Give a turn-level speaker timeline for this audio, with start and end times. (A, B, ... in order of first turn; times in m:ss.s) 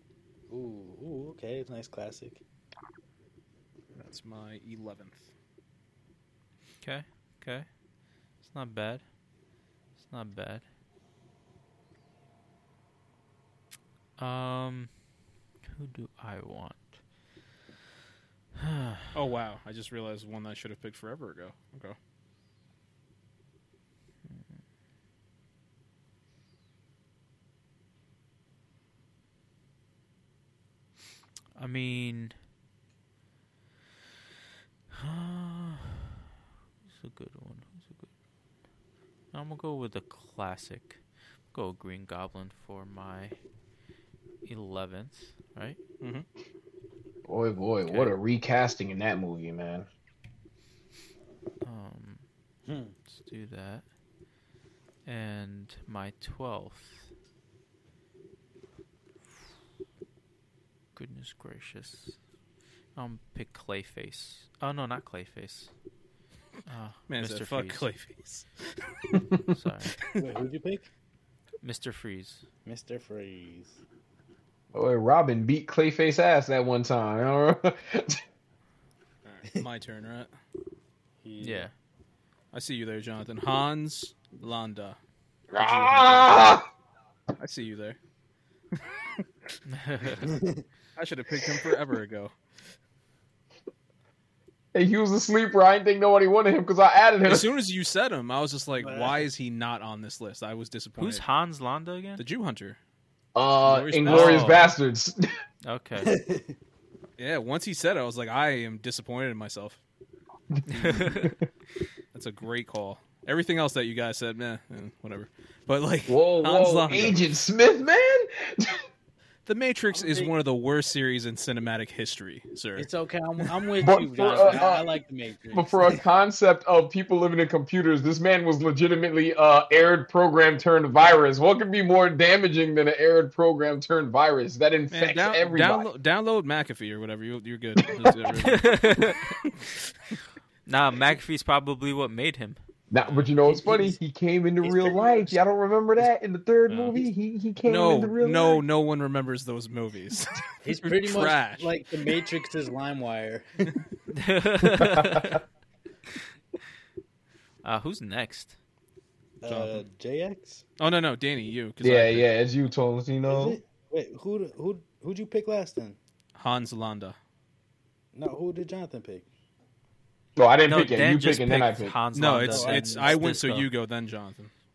0:00.5-0:02.4 A
0:03.9-0:05.3 B
0:06.8-0:07.7 C
0:08.4-0:09.0 C
0:10.0-0:10.6 C
0:14.2-0:14.9 C
0:15.6-0:17.0 C
0:18.6-0:19.1 C
0:19.1-0:22.0 B
0:31.6-0:32.3 C
0:34.9-0:36.1 C
0:36.8-0:38.1 C
0:39.3-0:41.0 C
0:41.5-0:43.4 C
0:44.4-0:45.8 C
0:46.0-0:46.3 B
0:47.2-0:49.9 D
0:47.9-0:48.1 C
0:51.6-0:52.2 C
0:52.7-0:52.9 A
0:53.1-0:53.8 C
0:55.0-0:57.1 C
1:00.9-1:02.2 C
1:02.9-1:05.7 C
1:06.6-1:07.8 C
1:07.1-1:09.1 B
1:09.5-1:10.0 C
1:10.0-1:10.2 B
1:10.2-1:10.9 A
1:11.6-1:12.4 C
1:12.6-1:13.8 A
1:14.7-1:18.2 D
1:19.2-1:20.3 B
1:21.2-1:21.7 A
1:21.4-1:21.7 C
1:22.5-1:25.0 B
1:25.5-1:26.6 D
1:25.6-1:26.6 B
1:27.4-1:28.0 B
1:28.7-1:29.5 B
1:29.7-1:30.4 C
1:30.2-1:30.6 A
1:31.0-1:32.4 B
1:34.7-1:37.5 D
1:37.2-1:41.2 B
1:38.8-1:39.3 A
1:41.0-1:42.2 C
1:42.2-1:42.8 B
1:43.4-1:45.2 D
1:43.6-1:44.7 B
1:44.0-1:44.7 C
1:45.6-1:46.1 C
1:46.0-1:46.6 A
1:47.2-1:49.8 B
1:50.6-1:51.3 D
1:50.7-1:51.3 C
1:50.7-1:51.2 B
1:52.1-1:57.3 B
1:56.1-1:58.8 D
1:59.4-2:02.9 B
1:59.9-2:00.3 A
2:02.8-2:06.0 A
2:03.8-2:04.9 D
2:04.3-2:04.6 B
2:05.5-2:15.8 D
2:14.9-2:18.9 B
2:18.3-2:19.4 C
2:20.6-2:22.6 C
2:22.9-2:28.6 D
2:23.0-2:23.3 B
2:23.4-2:24.0 A
2:24.6-2:25.4 A
2:26.7-2:27.0 B
2:27.6-2:31.7 B
2:30.6-2:33.7 A
2:34.1-2:35.4 C
2:34.7-2:35.4 D
2:37.6-2:38.6 C
2:39.4-2:40.6 A
2:39.4-2:39.8 B
2:40.8-2:42.3 B
2:41.8-2:43.6 D
2:43.3-2:46.0 A
2:46.4-2:47.2 B
2:48.1-2:49.3 A
2:50.4-2:52.0 D
2:50.7-2:53.7 C
2:52.1-2:54.5 B
2:52.5-2:53.3 A